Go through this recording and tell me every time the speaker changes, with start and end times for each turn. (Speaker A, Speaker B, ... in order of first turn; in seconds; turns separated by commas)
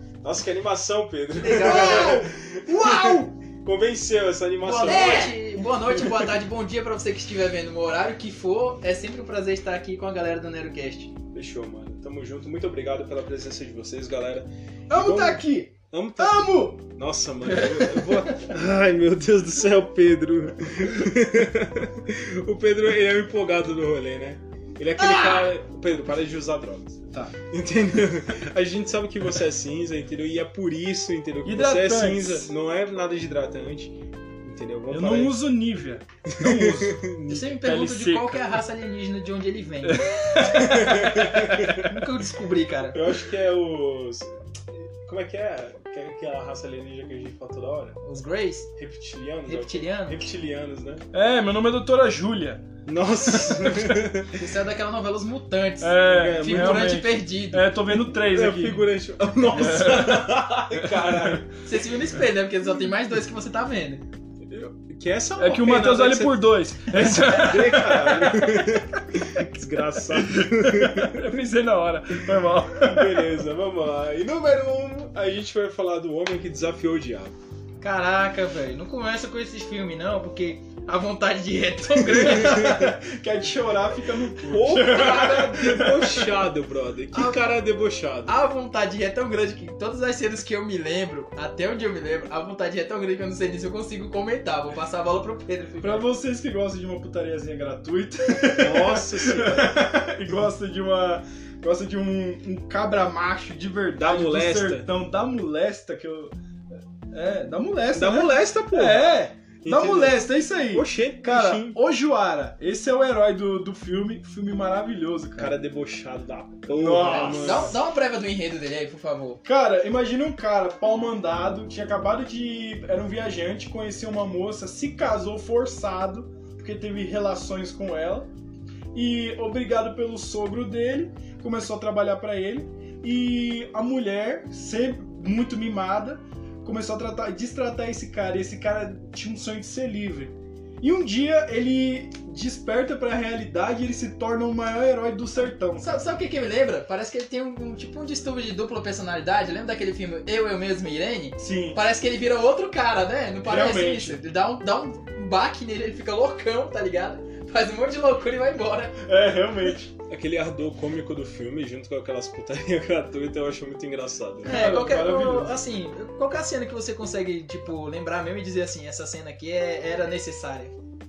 Speaker A: 0.2-6.2, Speaker B: 1.4-2.3, Speaker C: 1.4-3.3, Speaker B: 4.6-11.1, Speaker C: 4.8-5.4, Speaker A: 11.3-35.4, Speaker C: 14.9-16.8, Speaker C: 17.4-18.5, Speaker C: 31.4-32.5, Speaker C: 34.9-37.0, Speaker A: 36.3-37.6, Speaker B: 37.3-40.2, Speaker C: 37.6-38.5, Speaker C: 39.8-41.8, Speaker A: 40.4-41.9, Speaker B: 41.6-43.0, Speaker A: 42.9-48.0, Speaker B: 48.0-48.7, Speaker A: 48.8-51.1, Speaker B: 49.5-50.3, Speaker C: 51.1-52.7, Speaker A: 52.9-54.5, Speaker C: 53.2-54.1, Speaker B: 54.3-57.7, Speaker C: 55.8-58.9, Speaker A: 56.0-57.0, Speaker A: 58.0-61.6, Speaker C: 59.5-61.4, Speaker B: 61.6-64.0, Speaker A: 64.9-71.2, Speaker C: 65.4-68.7, Speaker B: 67.0-67.6, Speaker C: 70.0-73.4, Speaker A: 72.8-77.4, Speaker B: 77.8-82.8, Speaker A: 82.0-83.0, Speaker C: 82.1-86.5, Speaker A: 84.4-88.3, Speaker B: 87.1-87.5, Speaker B: 88.3-96.0, Speaker C: 95.8-106.3, Speaker A: 98.6-99.9, Speaker A: 104.0-104.9, Speaker C: 107.1-115.6, Speaker A: 107.9-111.8, Speaker A: 115.4-117.8, Speaker C: 116.7-117.8, Speaker B: 117.0-119.4, Speaker C: 119.4-128.3, Speaker C: 128.9-146.0, Speaker B: 145.8-159.0, Speaker C: 151.4-151.8, Speaker C: 153.4-154.2, Speaker C: 159.0-159.9, Speaker A: 160.1-164.7, Speaker C: 164.4-165.6, Speaker B: 164.4-170.7